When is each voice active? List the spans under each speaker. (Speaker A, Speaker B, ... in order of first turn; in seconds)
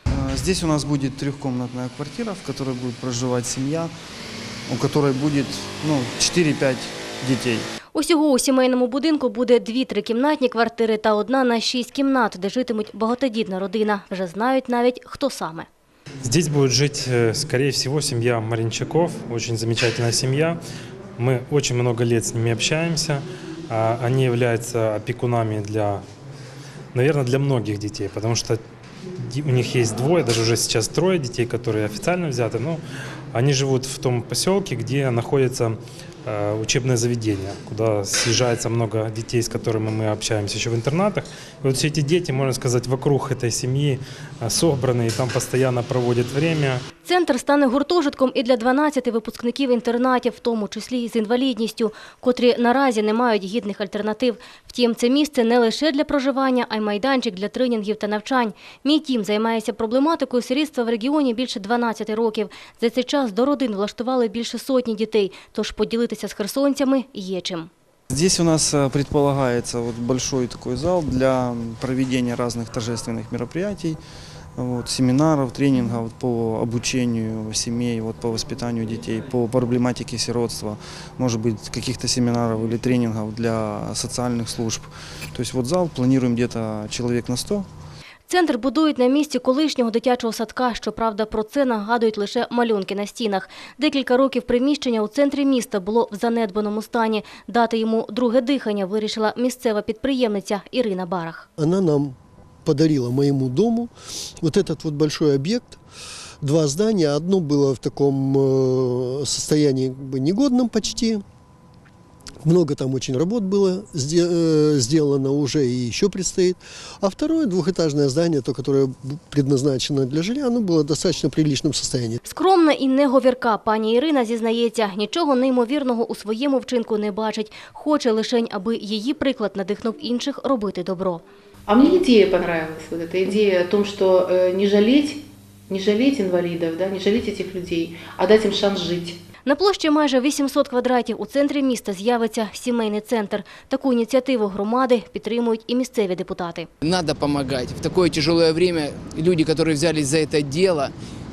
Speaker A: 0.1-3.9, 4.7-7.7, 68.1-74.0, 74.6-87.7
Speaker B: 7.9-15.7, 47.0-67.7, 88.3-101.5, 122.2-131.2, 139.4-146.7
Speaker C: 16.2-20.6, 21.2-26.0, 26.9-28.6, 29.2-32.8, 33.3-46.8
Speaker D: 101.6-103.9, 104.4-105.8, 106.4-111.2, 112.4-122.2
Speaker E: 131.7-139.2
Speaker F: 146.8-150.9